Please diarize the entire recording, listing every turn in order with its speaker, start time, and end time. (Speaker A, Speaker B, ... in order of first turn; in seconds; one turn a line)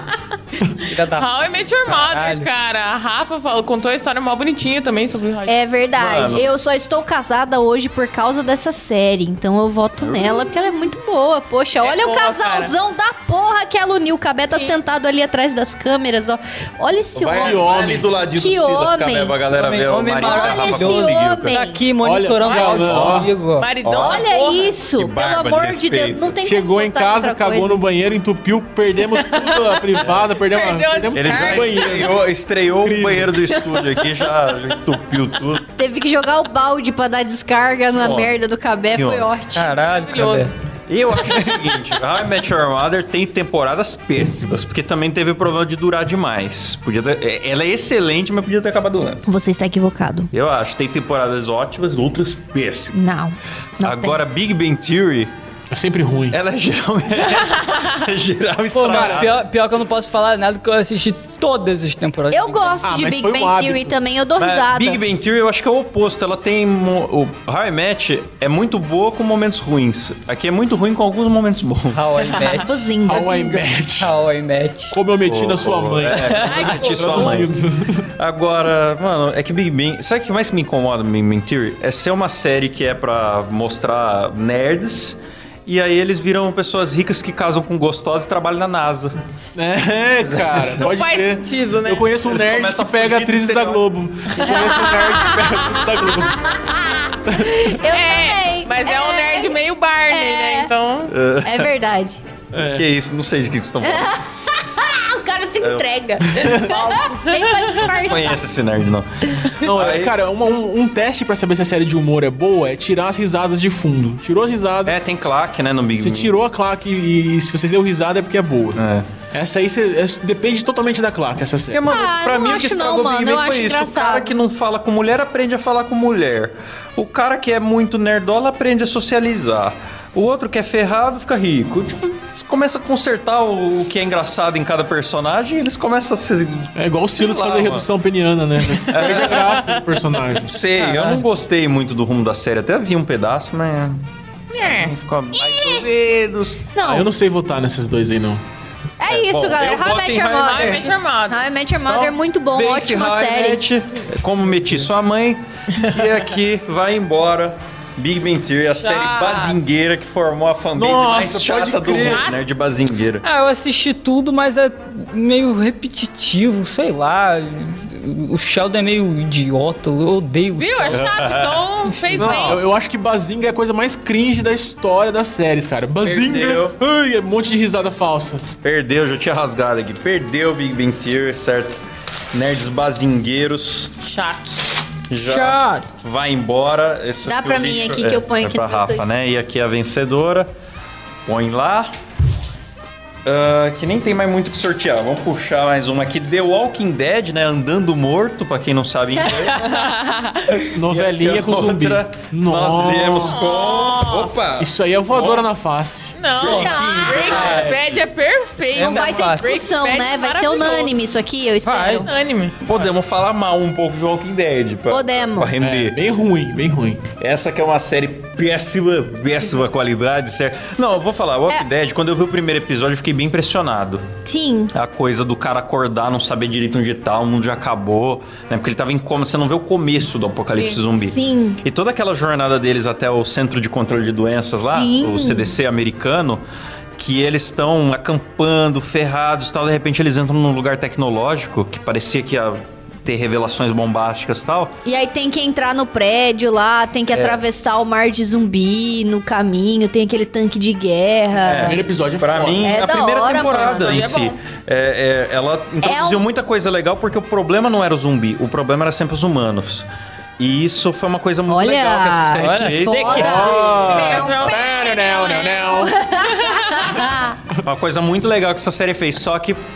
Speaker A: 0.9-1.3
Speaker B: 1.1-5.7
Speaker A: 2.1-2.5
Speaker C: 5.5-17.8
Speaker D: 6.0-6.5
Speaker D: 10.0-10.4
Speaker B: 11.8-12.7
Speaker D: 17.1-21.6
Speaker E: 17.3-18.1
Speaker C: 18.3-19.4
Speaker A: 19.5-23.7
Speaker C: 20.2-21.9
Speaker E: 22.0-23.3
Speaker B: 22.4-22.9
Speaker D: 22.8-23.3
Speaker B: 23.6-24.7
Speaker D: 23.8-24.2
Speaker C: 23.9-27.8
Speaker D: 25.0-26.4
Speaker E: 26.4-33.6
Speaker B: 29.4-32.1
Speaker D: 31.1-35.7
Speaker C: 35.8-39.8
Speaker D: 38.0-38.3
Speaker D: 38.9-39.3
Speaker A: 39.5-40.5
Speaker B: 39.8-40.5
Speaker D: 40.9-49.3
Speaker C: 49.3-50.3
Speaker D: 50.3-53.0
Speaker C: 52.9-54.2
Speaker D: 53.8-55.3
Speaker E: 55.7-56.4
Speaker D: 56.3-59.4
Speaker A: 58.8-62.8
Speaker E: 58.9-59.3
Speaker C: 62.3-65.0
Speaker E: 62.8-64.0
Speaker D: 64.4-72.0
Speaker A: 71.9-72.7
Speaker C: 72.5-73.7
Speaker E: 73.0-74.2
Speaker A: 74.0-75.0
Speaker E: 74.9-78.1
Speaker D: 75.2-77.6
Speaker B: 76.4-77.5
Speaker D: 78.2-89.1
Speaker E: 89.6-96.6
Speaker D: 90.5-90.8
Speaker B: 90.8-92.1
Speaker D: 92.3-93.9
Speaker C: 94.5-95.7
Speaker C: 96.3-100.7
Speaker E: 97.3-97.7
Speaker B: 97.9-101.1
Speaker D: 101.1-101.7
Speaker C: 101.4-102.2
Speaker E: 102.5-102.8
Speaker D: 102.6-104.2
Speaker C: 103.8-108.4
Speaker D: 105.6-105.9
Speaker E: 106.3-106.7
Speaker B: 106.5-107.9
Speaker D: 107.9-110.1
Speaker E: 109.6-115.0
Speaker D: 114.8-116.3
Speaker E: 116.0-121.8
Speaker D: 118.8-119.1
Speaker D: 121.7-137.9
Speaker C: 121.9-124.3
Speaker E: 136.8-140.6
Speaker D: 138.9-139.6
Speaker B: 139.1-139.8
Speaker D: 140.4-144.0
Speaker A: 140.9-141.2
Speaker B: 144.5-144.9
Speaker D: 144.6-146.7
Speaker C: 145.3-145.9
Speaker C: 146.7-147.1
Speaker E: 146.8-148.4
Speaker C: 149.0-153.7
Speaker D: 149.1-150.7
Speaker B: 150.3-151.4
Speaker D: 151.9-163.2
Speaker B: 158.8-159.6
Speaker E: 160.8-162.3
Speaker B: 161.9-162.4
Speaker A: 163.2-171.1
Speaker B: 170.6-172.6
Speaker D: 170.9-171.6
Speaker A: 171.9-172.5
Speaker E: 172.2-178.4
Speaker D: 176.0-176.8
Speaker D: 178.6-181.8
Speaker D: 182.3-183.9
Speaker B: 184.0-184.8
Speaker D: 185.1-190.5
Speaker C: 185.3-185.9
Speaker C: 187.3-189.1
Speaker D: 191.3-191.9
Speaker D: 193.2-199.7
Speaker B: 199.5-200.7
Speaker D: 200.6-205.5
Speaker E: 200.7-203.5
Speaker B: 203.3-204.4
Speaker E: 204.6-206.2
Speaker B: 206.2-210.9
Speaker D: 206.4-208.0
Speaker C: 206.4-207.5
Speaker A: 207.2-207.7
Speaker A: 208.7-209.5
Speaker C: 208.8-212.1
Speaker A: 211.6-212.1
Speaker B: 212.0-212.6
Speaker D: 212.6-216.0
Speaker C: 214.9-215.5
Speaker E: 215.6-217.0
Speaker D: 217.2-224.1
Speaker C: 224.2-224.7
Speaker D: 224.7-236.4
Speaker C: 230.9-231.6
Speaker C: 234.7-235.5
Speaker D: 237.0-244.7
Speaker C: 244.8-251.8
Speaker D: 247.1-247.4
Speaker D: 251.4-259.9
Speaker E: 251.6-252.8
Speaker C: 252.6-254.1
Speaker B: 253.5-254.4
Speaker C: 255.8-256.3
Speaker D: 260.4-263.6
Speaker C: 261.5-264.9
Speaker A: 262.4-263.7
Speaker E: 263.1-265.9
Speaker B: 263.8-267.0
Speaker C: 265.5-267.4
Speaker D: 267.6-269.6